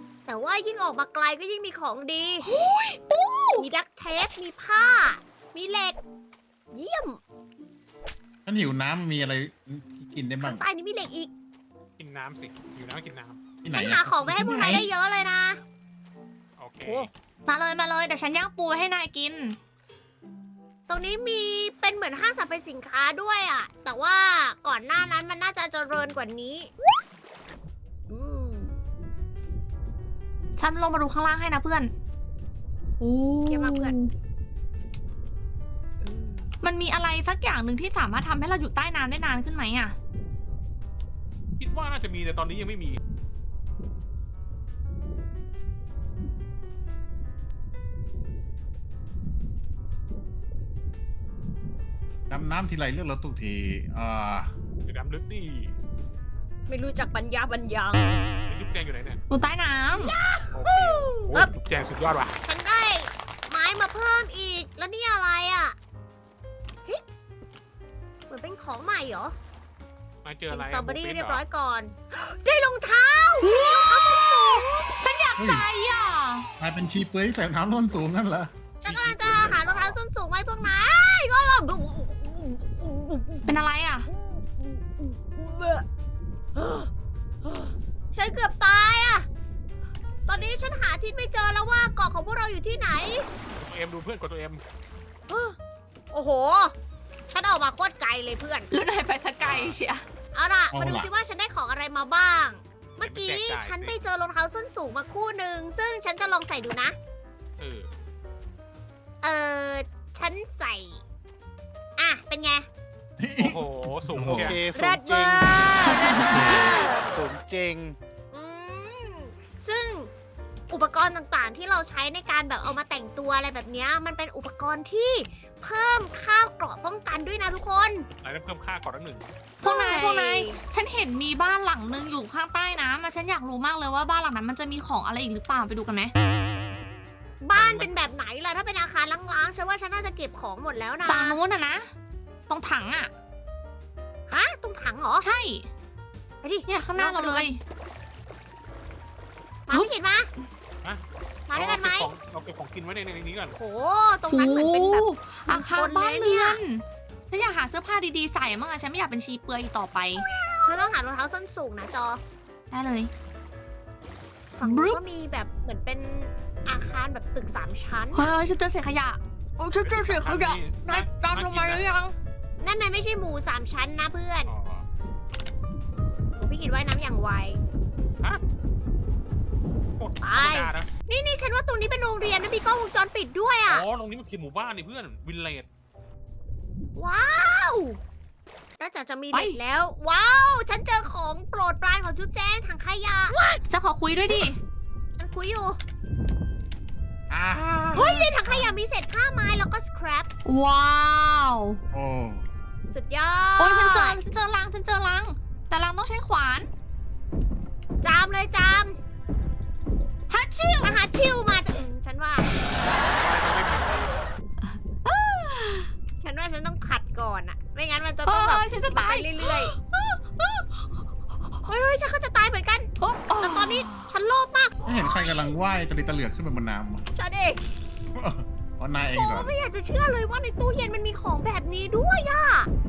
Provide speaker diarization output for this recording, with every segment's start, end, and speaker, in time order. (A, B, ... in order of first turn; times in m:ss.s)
0:00.3-0:02.4 A
0:02.4-0:03.6 B
0:03.6-0:06.0 A
0:06.7-0:07.2 A
0:08.4-0:10.6 C
0:10.4-0:11.3 A
0:12.0-0:13.4 D
0:13.6-0:14.8 C
0:13.7-0:15.6 A
0:16.6-0:17.1 D
0:17.4-0:19.6 B
0:20.9-0:26.7 A
0:28.1-0:28.7 A
0:30.6-0:31.9 B
0:33.0-0:34.1 B
0:33.5-0:34.0 A
0:36.0-0:36.5 A
0:36.6-0:40.0 B
0:41.6-0:43.0 D
0:52.3-0:54.5 C
0:54.8-0:55.7 D
0:56.7-0:58.2 A
0:58.5-0:59.2 D
0:59.3-1:00.2 B
0:59.9-1:01.5 A
1:00.5-1:02.4 D
1:02.4-1:05.8 A
1:08.3-1:09.3 A
1:10.2-1:11.4 D
1:10.5-1:14.9 A
1:13.4-1:14.1 B
1:15.0-1:16.5 B
1:15.4-1:15.7 C
1:16.6-1:18.5 C
1:18.8-1:23.6 A
1:18.8-1:20.0 D
1:23.4-1:24.1 B
1:24.1-1:25.8 A
1:26.5-1:26.9 A
1:27.4-1:29.3 A
1:30.3-1:33.3 A
1:33.6-1:34.6 D
1:35.3-1:35.6 A
1:36.1-1:36.7 A
1:37.3-1:38.7 A
1:38.7-1:40.0 B
1:39.4-1:39.8 D
1:40.3-1:47.0 A
1:40.7-1:41.1 C
1:43.0-1:44.0 D
1:47.6-1:47.9 D
1:49.2-1:51.0 A
1:52.0-1:52.7 A
1:53.2-1:54.6 C
1:53.4-1:54.6 D
1:54.3-1:55.7 E
1:54.7-1:57.0 A
1:55.8-1:56.6 B
1:56.2-1:56.7 C
1:56.6-1:58.0 E
1:58.3-2:00.1 A
2:00.7-2:08.0 A
2:08.2-2:09.2 D
2:09.6-2:16.1 B
2:09.6-2:10.6 A
2:17.4-2:21.4 A
2:17.5-2:17.9 D
2:21.0-2:21.9 B
2:22.5-2:23.1 B
2:24.3-2:25.3 A
2:25.2-2:25.7 B
2:26.4-2:27.5 A
2:26.7-2:27.6 B
2:29.7-2:30.3 A
2:30.8-2:33.6 D
2:31.5-2:32.1 A
2:33.6-2:36.6 A
2:34.3-2:40.2 B
2:40.6-2:42.2 A
2:42.7-2:43.1 B
2:44.6-2:48.2 A
2:44.6-2:45.0 B
2:48.1-2:52.1 B
2:49.8-2:51.8 D
2:52.6-2:54.5 A
2:54.4-2:54.8 D
2:56.4-2:57.6 A
3:00.0-3:00.9 D
3:00.2-3:03.8 A
3:03.7-3:05.7 D
3:07.0-3:08.0 A
3:08.8-3:13.6 A
3:09.3-3:09.6 B
3:13.6-3:14.6 B
3:15.2-3:15.8 A
3:17.3-3:18.8 C
3:17.9-3:20.3 A
3:20.4-3:21.8 B
3:21.9-3:22.5 C
3:22.9-3:24.2 A
3:23.6-3:26.7 B
3:28.0-3:29.0 A
3:30.3-3:31.0 B
3:30.8-3:32.5 A
3:32.8-3:34.2 D
3:34.6-3:35.9 B
3:36.2-3:39.7 A
3:38.2-3:40.6 B
3:41.6-3:45.5 A
3:43.0-3:44.0 B
3:44.8-3:47.0 C
3:47.1-3:47.6 A
3:48.1-3:49.5 C
3:49.1-3:52.7 A